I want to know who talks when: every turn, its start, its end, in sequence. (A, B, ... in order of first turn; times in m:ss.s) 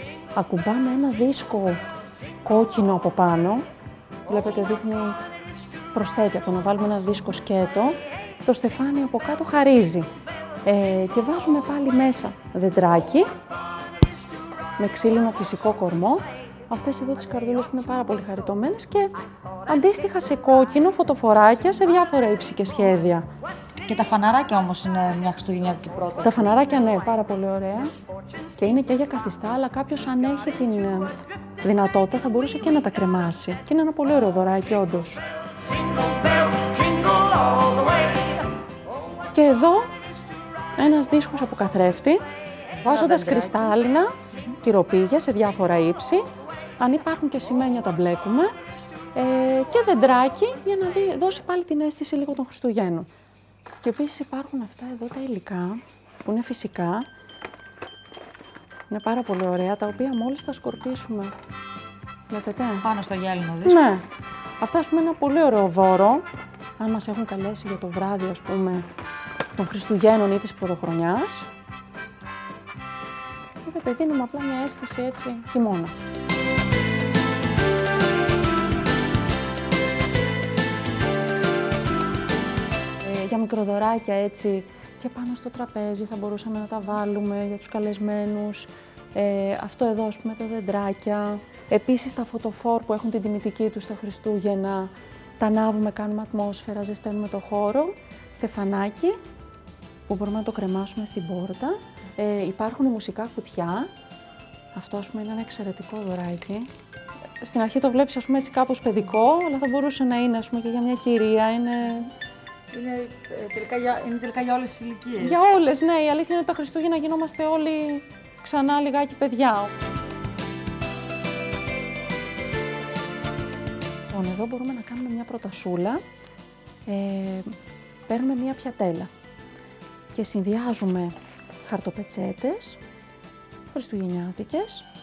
0:00.4-0:01.8 A
0:02.4-0:03.6 A
0:04.3-0:05.2 A
0:05.9-0:10.1 A
0:10.7-0:13.3 A
0:14.8-0:19.2 A
0:19.7-0:23.3 A
0:23.9-0:26.7 B
0:26.2-0:27.9 A
0:28.6-0:35.2 A
0:39.3-0:39.9 A
0:40.8-0:42.2 A
0:42.8-0:43.7 B
0:42.8-0:46.2 A
0:46.8-0:48.5 A
0:49.2-0:53.1 A
0:53.8-0:57.1 A
0:58.9-1:01.3 A
1:02.3-1:02.9 A
1:02.8-1:03.9 B
1:03.6-1:04.0 A
1:04.6-1:06.2 A
1:06.8-1:08.8 A
1:09.6-1:11.5 A
1:13.6-1:15.9 A
1:23.0-1:39.2 A
1:40.1-1:43.9 A
1:44.8-1:46.7 A
1:47.4-1:52.1 A
1:52.7-1:55.4 B
1:55.2-1:59.7 A
2:04.1-2:06.0 A
2:06.9-2:07.5 A
2:08.1-2:09.1 A
2:10.1-2:12.8 A
2:13.7-2:14.8 A